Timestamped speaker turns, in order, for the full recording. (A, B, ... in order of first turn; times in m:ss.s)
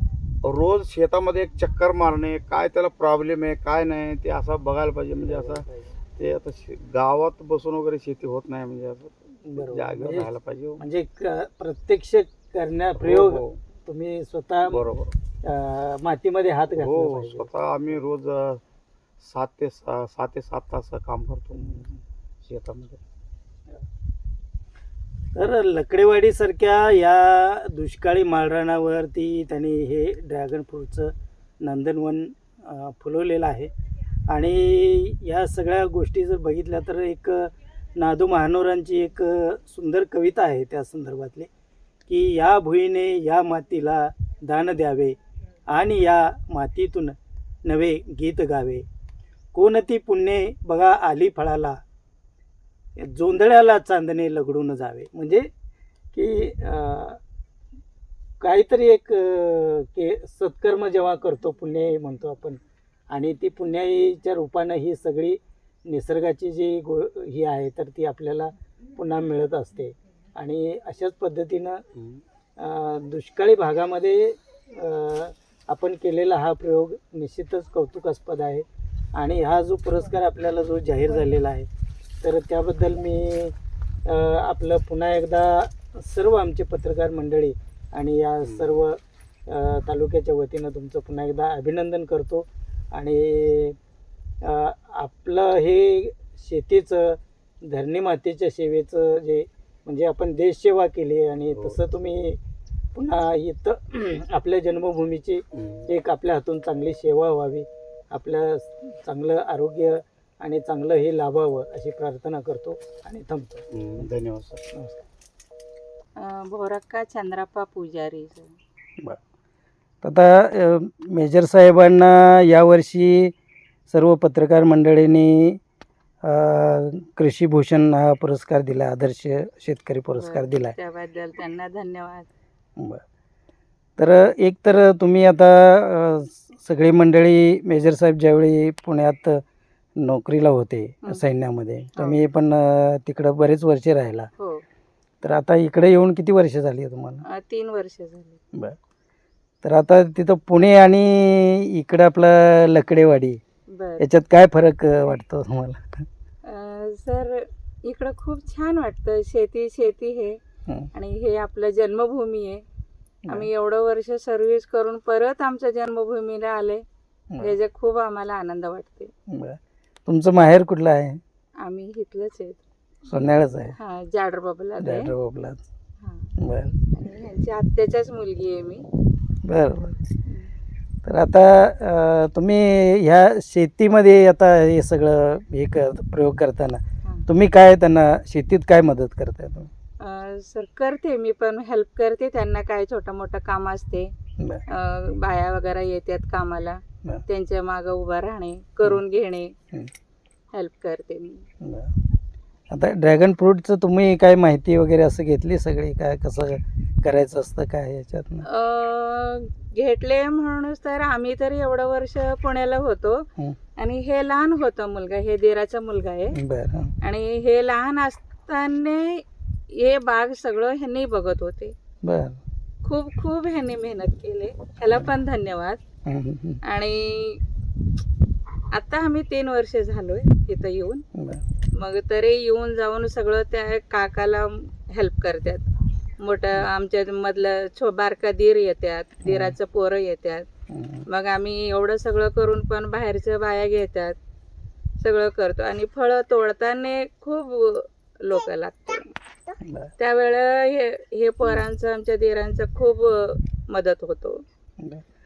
0:00.4-0:10.8 A
0:05.2-0:06.0 B
0:09.4-0:14.8 B
0:13.0-0:13.6 A
0:14.7-0:15.2 A
0:15.4-0:17.7 B
0:16.7-0:18.6 A
0:19.2-0:21.9 A
0:21.5-0:22.0 B
0:22.4-0:23.0 A
0:25.3-0:33.7 B
0:34.3-0:41.5 B
0:42.1-0:45.2 B
0:45.7-0:48.9 B
0:49.5-0:51.8 B
0:53.0-0:55.5 B
0:56.1-0:57.2 B
0:58.4-1:02.6 B
1:03.1-1:11.8 B
1:11.9-1:12.2 A
1:12.6-1:21.7 B
1:22.2-1:23.5 B
1:24.0-1:33.8 B
1:28.4-1:28.8 A
1:34.4-1:42.4 B
1:43.0-1:54.0 B
1:45.5-1:45.9 A
1:53.7-1:54.7 A
1:54.7-1:55.1 B
1:56.2-1:58.5 C
2:00.0-2:03.3 B
2:03.9-2:05.6 B
2:06.2-2:10.8 B
2:10.2-2:12.3 C
2:12.8-2:13.0 B
2:14.0-2:19.4 B
2:20.0-2:24.3 B
2:24.4-2:24.6 C
2:25.2-2:27.2 B
2:27.3-2:28.4 C
2:29.6-2:33.4 B
2:33.7-2:34.0 C
2:34.0-2:36.0 B
2:36.4-2:40.4 C
2:40.9-2:42.6 C
2:43.3-2:46.8 C
2:47.4-2:49.1 C
2:49.3-2:51.2 B
2:51.6-2:52.6 C
2:53.1-2:53.8 B
2:53.8-2:55.1 C
2:54.8-2:55.6 B
2:56.0-2:56.4 C
2:56.4-2:56.8 B
2:56.9-2:58.9 C
2:59.4-3:00.0 B
3:00.3-3:00.5 C
3:01.0-3:09.7 B
3:10.0-3:14.1 C
3:14.7-3:19.5 C
3:20.5-3:21.5 C
3:21.6-3:22.0 B
3:22.7-3:28.5 B
3:28.5-3:33.2 C
3:33.8-3:36.4 C
3:36.4-3:36.9 B
3:37.0-3:41.7 C
3:42.0-3:42.4 B
3:42.8-3:45.8 C
3:46.1-3:46.6 B
3:46.6-3:47.4 C
3:48.7-3:51.0 C
3:51.2-3:51.4 B
3:51.8-3:55.7 C
3:56.2-4:00.5 C
3:59.2-3:59.6 B
4:00.7-4:01.1 B
4:01.1-4:04.2 C
4:05.0-4:09.1 C
4:09.6-4:09.9 B
4:10.0-4:14.4 C